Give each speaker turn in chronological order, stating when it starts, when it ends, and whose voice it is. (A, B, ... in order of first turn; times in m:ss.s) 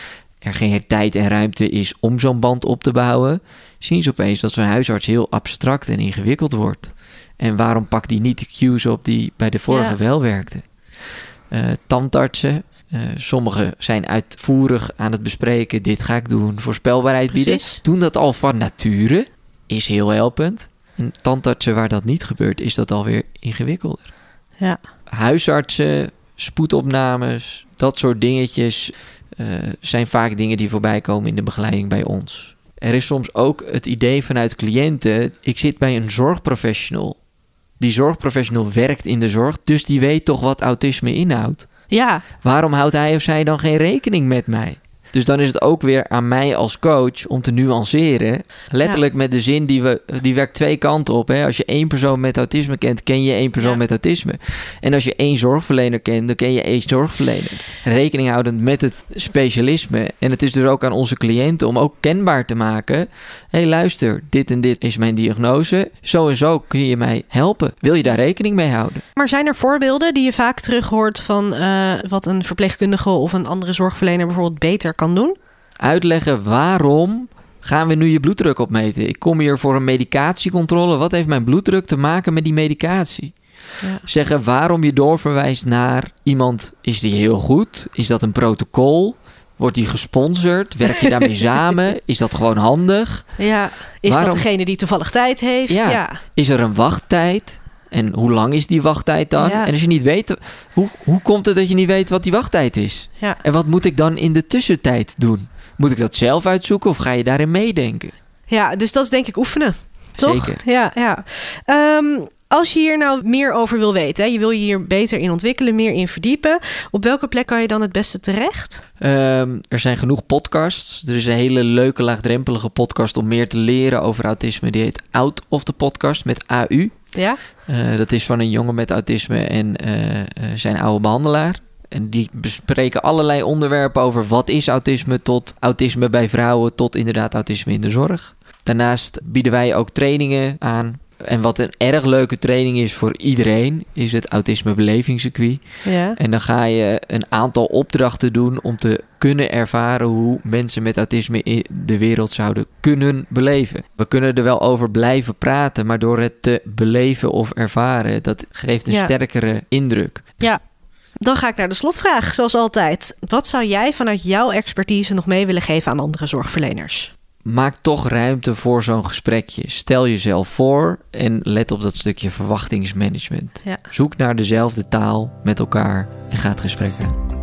0:00.4-0:10.6 A
0:09.7-0:10.0 B
0:11.5-0:24.1 A
0:17.3-0:17.8 B
0:25.1-0:37.2 A
0:37.8-0:41.7 A
0:41.9-0:42.2 B
0:42.4-1:09.0 A
1:09.2-1:15.4 B
1:15.8-1:23.3 A
1:24.0-1:33.3 A
1:33.4-1:36.2 B
1:34.1-1:34.5 A
1:35.7-1:48.1 A
1:39.4-1:39.7 B
1:48.5-1:58.8 B
1:50.2-1:50.6 A
1:59.0-2:07.0 A
2:07.7-2:25.6 A
2:25.8-2:26.2 B
2:26.2-2:40.3 A
2:38.9-2:39.1 B
2:41.2-2:47.1 B
2:47.4-2:57.2 A